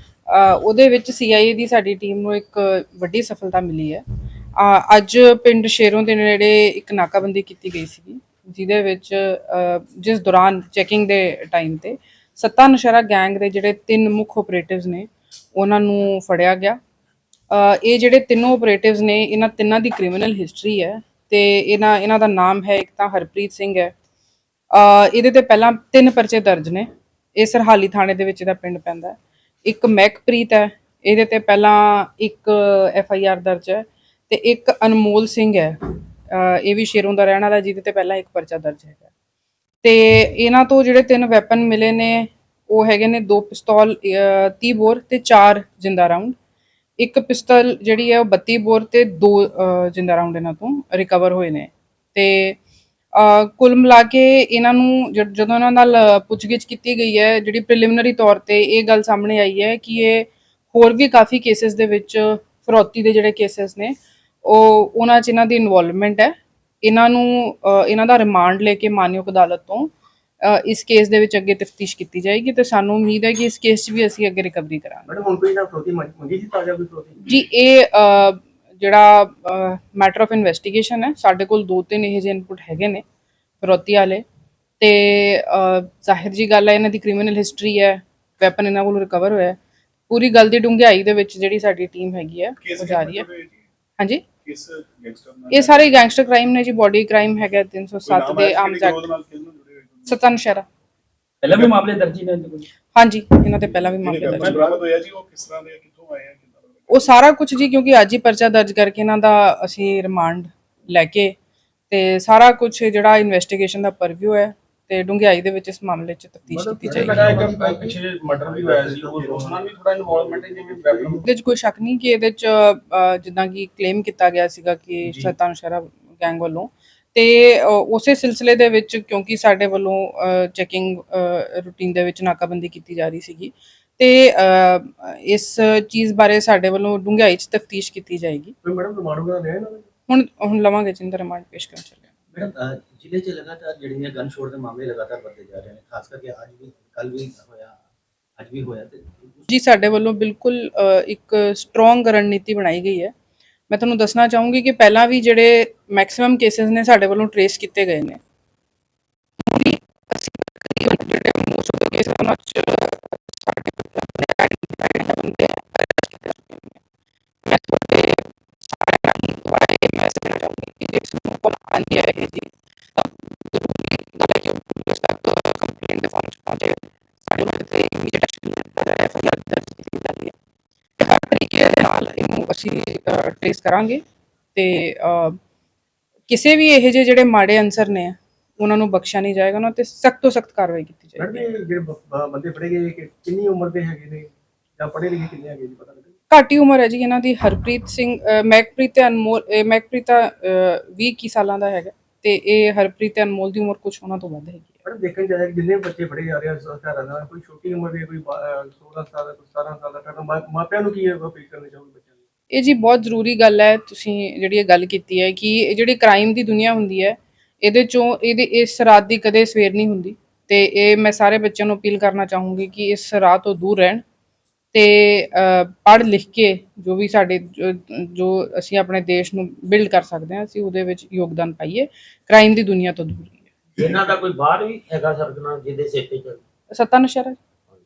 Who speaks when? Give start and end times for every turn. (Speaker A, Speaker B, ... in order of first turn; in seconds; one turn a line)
Speaker A: 0.3-4.0
Speaker A: 4.6-16.8
Speaker A: 17.5-23.9
Speaker A: 24.7-35.8
Speaker A: 36.3-39.0
Speaker A: 39.8-46.3
Speaker A: 47.0-52.6
Speaker A: 53.1-75.1
Speaker B: 75.1-77.3
Speaker A: 77.2-83.0
Speaker A: 83.6-84.2
Speaker A: 84.8-89.6
Speaker A: 90.1-93.3
Speaker C: 92.6-93.7
Speaker A: 94.0-94.2
Speaker C: 94.4-96.0
Speaker A: 95.5-99.1
Speaker C: 98.1-100.2
Speaker A: 100.1-100.7
Speaker C: 101.4-101.8
Speaker D: 101.5-102.7
Speaker A: 102.9-104.6
Speaker C: 104.0-107.1
Speaker A: 106.9-111.3
Speaker A: 111.9-117.3
Speaker B: 116.5-121.2
Speaker D: 117.0-121.2
Speaker A: 121.2-138.5
Speaker B: 138.6-139.9
Speaker A: 140.1-142.1
Speaker E: 142.3-147.8
Speaker E: 148.4-149.4
Speaker A: 149.5-153.1
Speaker A: 153.7-158.2
Speaker A: 159.4-166.8
Speaker A: 167.4-180.3
Speaker A: 181.0-184.0
Speaker A: 184.5-185.4
Speaker A: 186.3-191.4
Speaker B: 191.2-196.2
Speaker A: 196.3-204.8
Speaker B: 204.8-212.2
Speaker A: 212.5-224.0
Speaker A: 224.7-233.5
Speaker F: 233.8-236.4
Speaker A: 236.7-237.4